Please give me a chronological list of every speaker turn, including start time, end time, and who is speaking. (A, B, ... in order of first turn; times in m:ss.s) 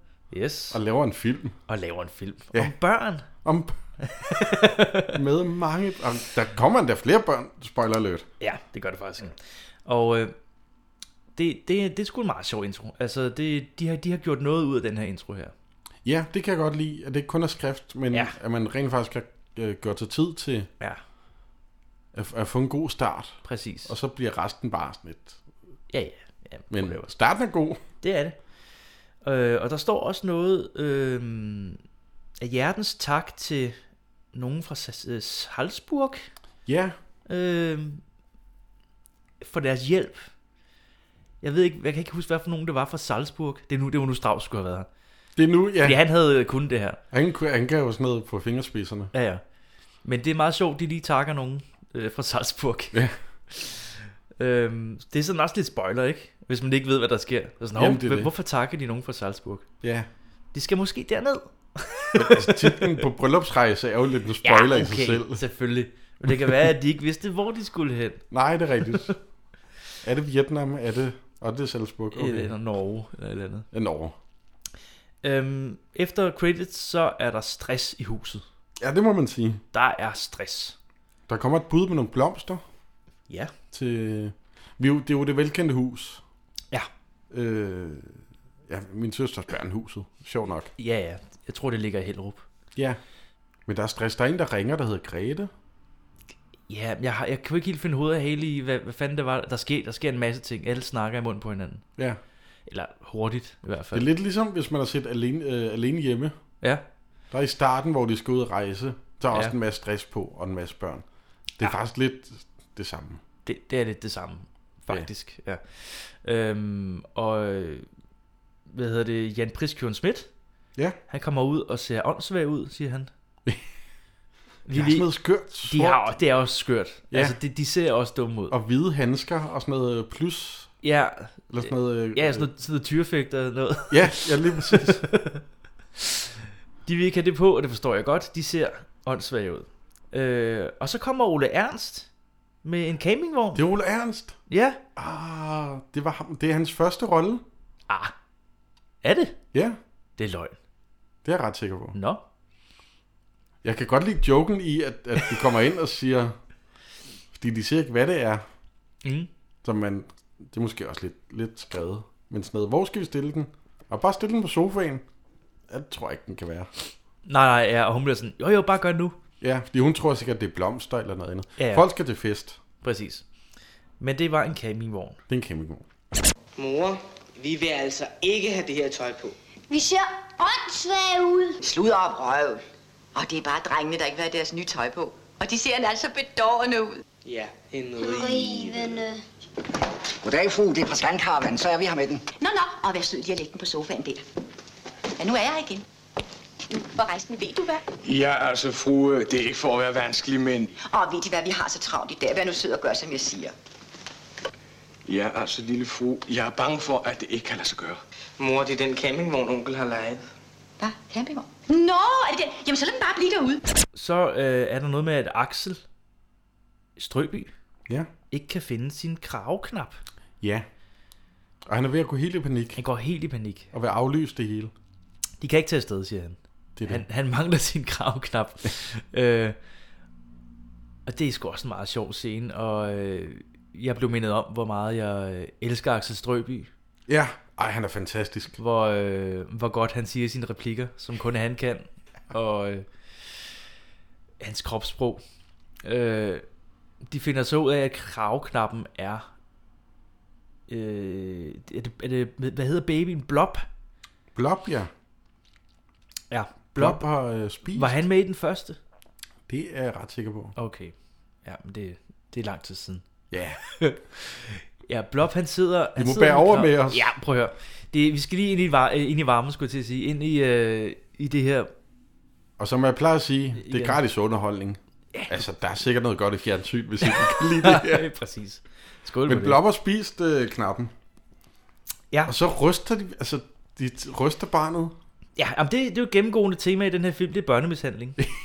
0:00.3-0:00.8 A
0:00.7-0:01.6 B
0:01.7-0:03.3 A
0:03.4-0:03.8 B
0:04.0-0:05.2 A
0:05.1-0:08.3 B
0:08.4-0:10.3 A
0:11.4-0:15.5 A
0:16.0-0:20.7 B
0:22.1-0:25.4 B
0:23.4-0:23.9 A
0:25.9-0:27.1 A
0:26.7-0:27.8 B
0:28.0-0:28.4 A
0:29.2-0:31.8 A
0:32.4-0:33.8 A
0:34.3-0:36.3 A
0:36.6-0:37.0 B
0:37.3-0:38.0 A
0:39.4-0:40.3 A
0:41.4-0:44.9 A
0:45.4-0:46.0 B
0:45.8-0:47.0 A
0:47.1-0:49.1 B
0:49.1-0:49.4 A
0:50.0-0:59.7 A
0:57.8-0:58.3 B
0:59.8-1:00.1 B
1:00.5-1:03.0 A
1:02.1-1:05.4 B
1:04.4-1:08.2 A
1:08.3-1:09.2 B
1:10.0-1:12.5 B
1:12.1-1:13.7 A
1:13.7-1:14.1 B
1:15.2-1:18.4 A
1:18.8-1:19.6 B
1:19.7-1:20.8 A
1:21.3-1:22.6 B
1:23.7-1:26.2 B
1:27.3-1:30.7 B
1:30.8-1:32.4 A
1:33.7-1:35.5 B
1:36.7-1:41.8 A
1:42.7-1:44.1 A
1:43.9-1:46.3 B
1:47.3-1:51.0 B
1:51.6-1:53.2 B
1:53.4-1:57.8 A
1:58.7-2:00.3 A
2:01.1-2:03.1 A
2:04.6-2:05.1 A
2:04.7-2:06.1 B
2:05.6-2:08.5 A
2:07.1-2:07.4 B
2:08.5-2:10.7 B
2:10.8-2:15.4 A
2:11.5-2:12.5 B
2:13.9-2:15.0 B
2:16.0-2:16.2 A
2:16.8-2:22.1 A
2:22.6-2:23.6 A
2:23.5-2:24.4 B
2:24.5-2:24.8 A
2:25.0-2:27.4 B
2:29.0-2:29.4 A
2:29.5-2:29.8 B
2:30.2-2:30.6 A
2:31.2-2:32.0 B
2:31.9-2:32.2 A
2:33.6-2:36.4 B
2:37.3-2:38.4 B
2:39.0-2:39.3 A
2:39.6-2:45.0 B
2:45.7-2:46.7 B
2:47.2-2:49.2 A
2:49.4-2:52.6 B
2:51.6-2:51.8 A
2:52.8-2:53.2 A
2:54.0-2:55.2 A
2:55.3-2:55.8 B
2:56.6-2:59.3 C
2:59.7-3:01.5 D
3:01.6-3:02.6 E
3:03.1-3:07.0 E
3:07.2-3:08.9 C
3:08.0-3:09.2 D
3:10.2-3:12.2 F
3:12.4-3:14.2 E
3:15.2-3:15.8 E
3:16.7-3:17.8 E
3:18.0-3:20.7 G
3:20.8-3:23.5 E
3:25.1-3:28.0 G
3:28.4-3:30.2 C
3:30.8-3:33.6 E
3:33.9-3:35.8 A
3:37.0-3:37.5 A
3:38.3-3:40.0 A
3:40.4-3:40.7 B
3:41.6-3:42.8 B
3:42.8-3:43.7 A
3:43.7-3:44.7 B
3:45.4-3:49.6 A
3:46.8-3:47.0 B
3:51.0-3:56.7 A
3:57.1-3:58.6 B
3:58.6-4:02.8 A
4:04.4-4:05.2 A
4:05.8-4:06.4 A
4:07.1-4:09.3 A
4:10.7-4:13.6 A
4:14.3-4:14.9 B
4:16.3-4:17.0 A
4:16.7-4:18.0 B
4:17.7-4:18.8 A
4:19.5-4:20.5 B
4:20.6-4:20.9 A
4:21.4-4:23.0 A
4:23.3-4:23.6 B
4:23.7-4:31.7 A
4:26.0-4:27.1 B
4:32.6-4:38.1 B
4:33.6-4:34.0 A
4:35.1-4:35.4 A
4:37.0-4:39.6 A
4:39.2-4:40.9 B
4:42.2-4:44.9 B
4:45.4-4:48.2 A